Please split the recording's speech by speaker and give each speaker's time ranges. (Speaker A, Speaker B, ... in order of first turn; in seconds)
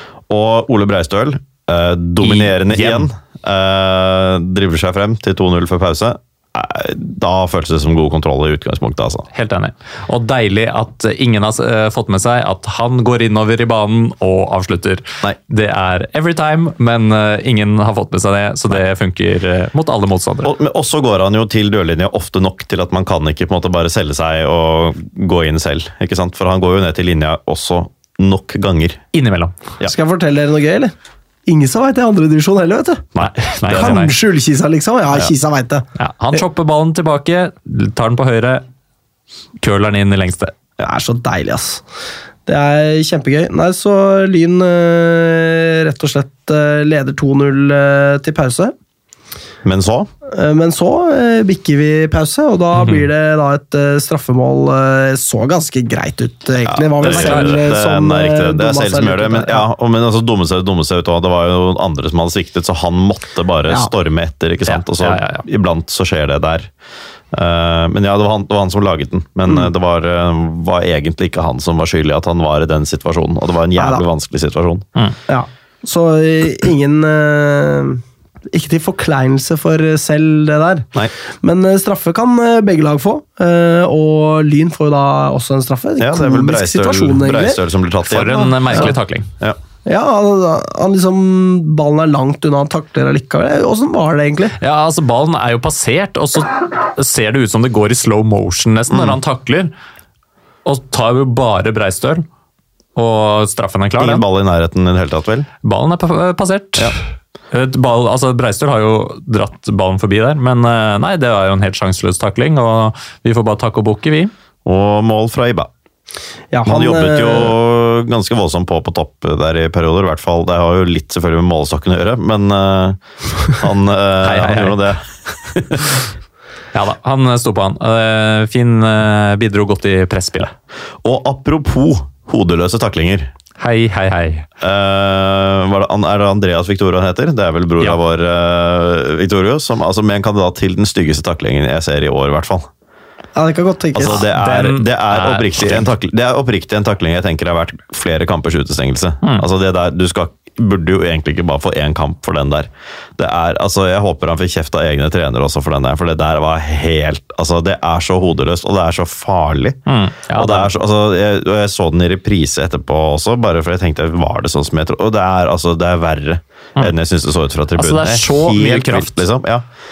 Speaker A: 0.3-9.3, 20.4-29.0, 33.1-34.0, 49.6-50.1, 56.7-66.7, 67.3-74.9, 86.0-89.6, 98.9-99.2, 104.0-105.5, 114.7-115.7, 116.7-126.0, 131.0-133.3, 134.6-142.7, 143.9-159.8, 160.3-169.6
Speaker B: 2.2-3.1, 9.3-20.5, 29.1-29.6, 33.2-34.1, 36.0-38.6, 39.6-40.5, 52.7-53.1, 57.0-57.7, 64.7-65.5, 88.1-89.3, 94.6-99.7, 100.7-102.3, 103.0-104.2, 105.6-114.3, 124.2-124.9, 126.7-130.5, 133.6-134.5, 144.0-145.9, 159.9-160.7, 167.8-169.2
Speaker C: 29.9-30.9, 31.5-33.1, 33.7-36.4, 40.8-41.8, 42.5-48.7, 50.3-59.7, 73.8-74.0, 75.3-80.9, 81.4-87.6, 88.3-88.9, 89.9-94.6, 116.5-117.5, 143.3-144.2